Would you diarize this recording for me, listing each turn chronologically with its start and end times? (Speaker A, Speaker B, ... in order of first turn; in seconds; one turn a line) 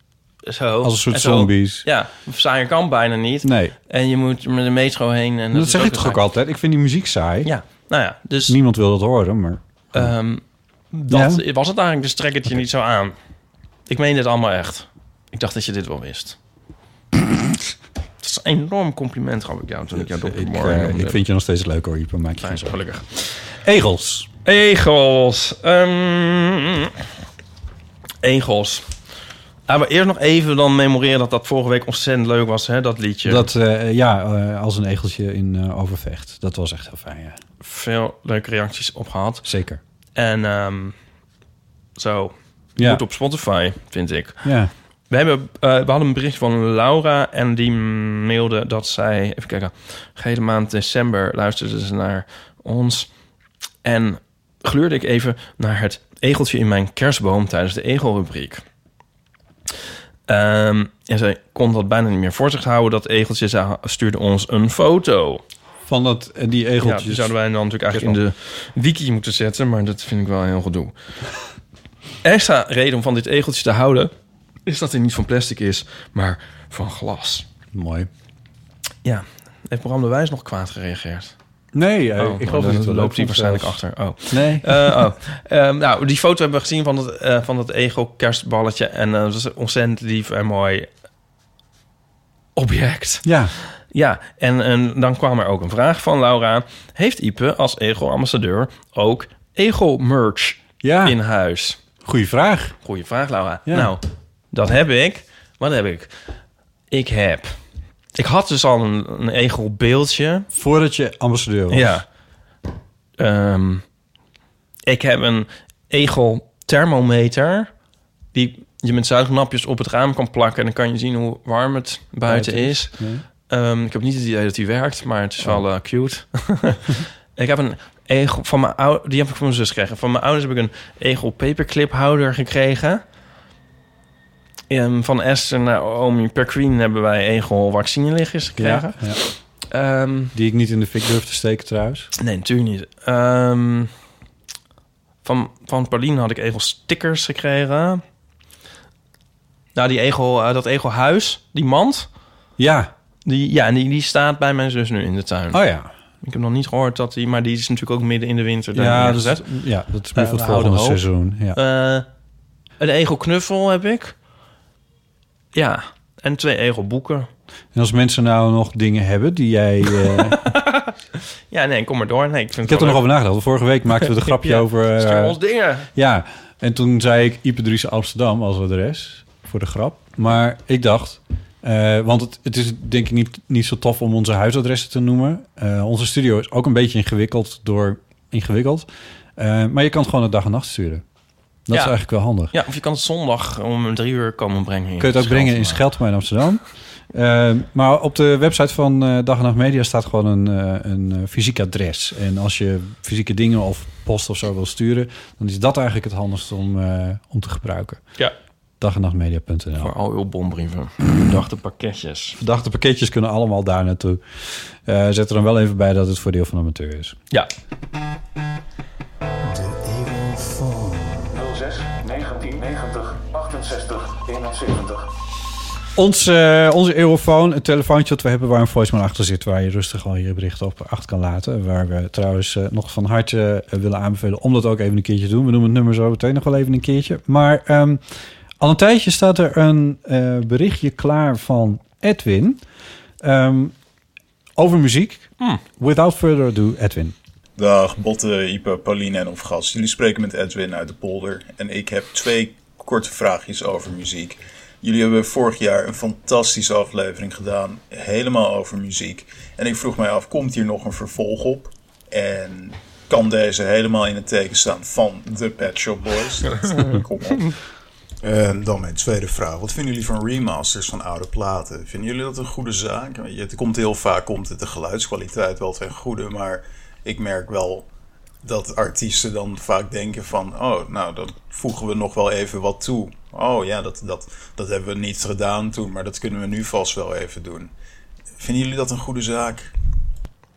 Speaker A: 0.5-6.2
Speaker B: 0.8-1.9
Speaker B: 3.4-3.7
Speaker B: 5.5-7.5
Speaker A: 7.5-8.6
Speaker B: 8.5-10.1
Speaker A: 9.9-13.2
Speaker B: 11.1-11.4
Speaker A: 13.9-16.4
Speaker A: 18.2-21.2
Speaker B: 19.9-22.7
Speaker A: 22.4-23.4
Speaker B: 23.6-24.3
Speaker A: 24.4-27.0
Speaker A: 28.2-28.9
Speaker A: 29.7-33.5
Speaker B: 33.3-37.4
Speaker A: 37.6-39.5
Speaker B: 39.5-39.8
Speaker A: 40.2-41.0
Speaker A: 42.0-44.5
Speaker B: 44.4-44.7
Speaker A: 45.1-53.1
Speaker A: 53.8-58.6
Speaker A: 60.3-65.4
Speaker B: 65.9-67.3
Speaker A: 66.8-70.9
Speaker B: 67.9-68.2
Speaker A: 72.2-74.1
Speaker A: 74.7-77.5
Speaker B: 77.7-78.1
Speaker A: 79.0-81.3
Speaker B: 81.7-85.1
Speaker A: 82.2-90.9
Speaker A: 92.6-93.3
Speaker B: 93.2-93.5
Speaker A: 93.9-101.8
Speaker B: 100.8-101.2
Speaker B: 102.0-102.8
Speaker A: 102.8-106.1
Speaker B: 103.7-103.9
Speaker A: 106.9-107.5
Speaker A: 108.2-110.5
Speaker B: 110.5-112.0
Speaker A: 111.7-112.0
Speaker A: 113.2-113.8
Speaker A: 114.9-117.7
Speaker A: 118.3-133.0
Speaker B: 122.3-123.2
Speaker A: 134.7-140.3
Speaker B: 138.6-139.2
Speaker B: 140.3-142.1
Speaker A: 142.2-143.9
Speaker A: 145.2-148.0
Speaker A: 149.8-152.1
Speaker B: 152.6-152.9
Speaker A: 153.2-155.6
Speaker B: 155.5-155.9
Speaker A: 156.2-159.4
Speaker B: 158.8-161.6
Speaker A: 160.2-162.1
Speaker A: 162.8-164.1
Speaker A: 165.5-167.3
Speaker B: 167.7-170.5
Speaker A: 170.1-170.9
Speaker A: 171.5-173.0
Speaker B: 172.7-175.4
Speaker A: 174.0-175.9
Speaker B: 175.9-188.9
Speaker B: 189.4-191.0
Speaker B: 191.7-192.5
Speaker A: 192.5-195.8
Speaker B: 195.0-196.6
Speaker B: 197.1-208.0
Speaker B: 208.8-209.9
Speaker A: 209.8-212.4
Speaker B: 212.4-217.2
Speaker C: 221.3-225.1
Speaker B: 225.9-238.0
Speaker B: 238.6-242.6
Speaker B: 243.2-243.8
Speaker B: 244.6-247.2
Speaker D: 247.6-267.6
Speaker D: 268.2-277.9
Speaker D: 278.4-287.7
Speaker D: 288.4-289.7